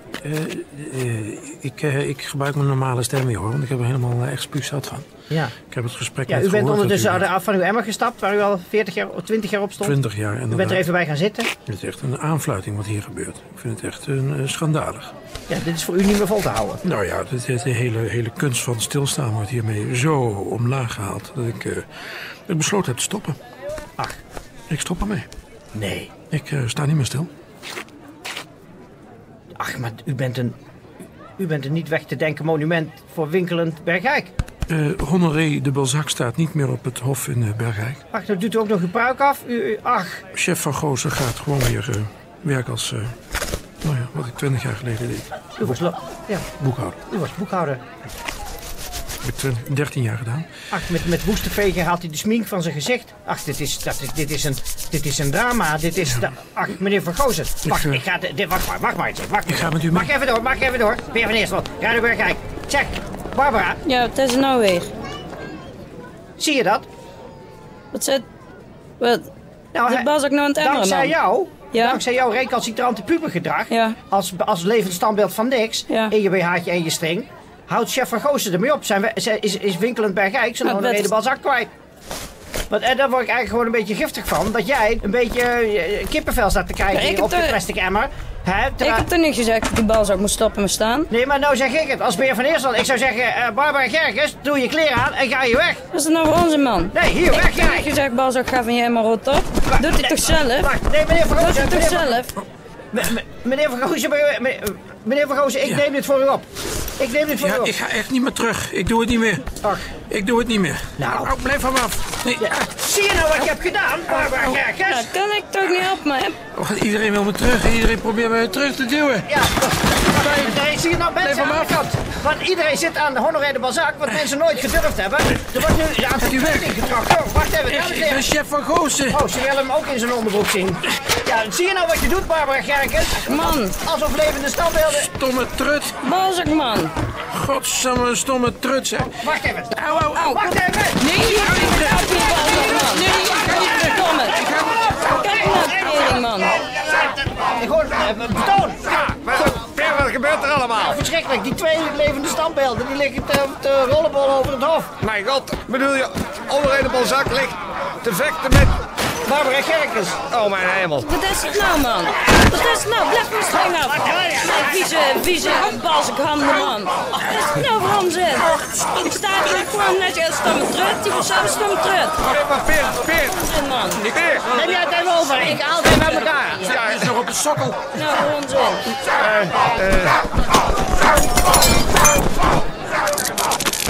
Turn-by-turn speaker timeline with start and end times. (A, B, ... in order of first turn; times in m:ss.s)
0:00.2-0:05.1 A
0:05.6-0:07.2 A
0:06.3-0:10.0 B
0:09.8-0:10.9 A
0:10.5-0:11.5 B
0:11.7-0:15.1 A
0:15.5-0:16.8 B
0:16.8-0:21.9 A
0:22.5-0:23.4 A
0:24.7-0:25.3 A
0:25.7-0:26.1 B
0:26.3-0:27.3 A
0:29.6-0:30.6 B
0:31.4-0:34.3 B
0:34.7-0:38.0 A
0:38.1-0:40.2 B
0:40.3-0:43.2 A
0:43.8-0:45.7 A
0:45.6-0:46.5 B
0:46.6-0:47.0 A
0:47.1-0:47.8 B
0:49.2-0:50.5 A
0:50.7-1:03.8 B
0:57.6-0:58.0 A
0:59.5-1:00.1 A
1:03.8-1:04.9 C
1:06.4-1:06.9 B
1:07.9-1:08.2 C
1:09.0-1:09.3 C
1:09.7-1:21.7 B
1:09.9-1:11.1 C
1:11.7-1:12.0 C
1:13.7-1:14.0 C
1:20.6-1:21.1 C
1:22.7-1:29.1 B
1:26.9-1:27.6 C
1:28.8-1:31.1 C
1:31.1-1:35.8 B
1:35.9-1:40.7 C
1:36.9-1:37.9 B
1:39.6-1:42.2 B
1:41.3-1:42.3 C
1:42.9-1:47.7 B
1:47.4-1:49.6 A
1:49.6-1:49.9 B
1:50.1-1:52.7 A
1:51.0-1:51.3 B
1:52.4-1:55.1 B
1:54.9-1:56.4 C
1:56.5-1:59.3 A
1:59.3-2:08.2 B
2:01.2-2:01.7 A
2:06.2-2:06.8 A
2:07.7-2:09.2 A
2:09.1-2:15.1 B
2:13.3-2:13.7 C
2:14.9-2:16.0 A
2:16.0-2:16.9 C
2:17.3-2:19.2 A
2:19.2-2:21.3 B
2:19.7-2:20.6 A
2:21.0-2:24.4 C
2:24.4-2:24.9 D
2:24.9-2:28.9 B
2:25.2-2:26.5 C
2:28.9-2:31.0 D
2:30.8-2:34.9 B
2:35.0-2:38.7 D
2:39.3-2:40.2 B
2:40.3-2:41.1 D
2:41.0-2:52.2 C
2:43.4-2:45.2 B
2:52.2-2:54.8 D
2:53.4-2:54.0 C
2:54.5-2:56.7 B
2:56.6-2:57.2 D
2:56.9-2:57.8 A
2:57.9-2:59.0 C
2:59.1-3:00.2 D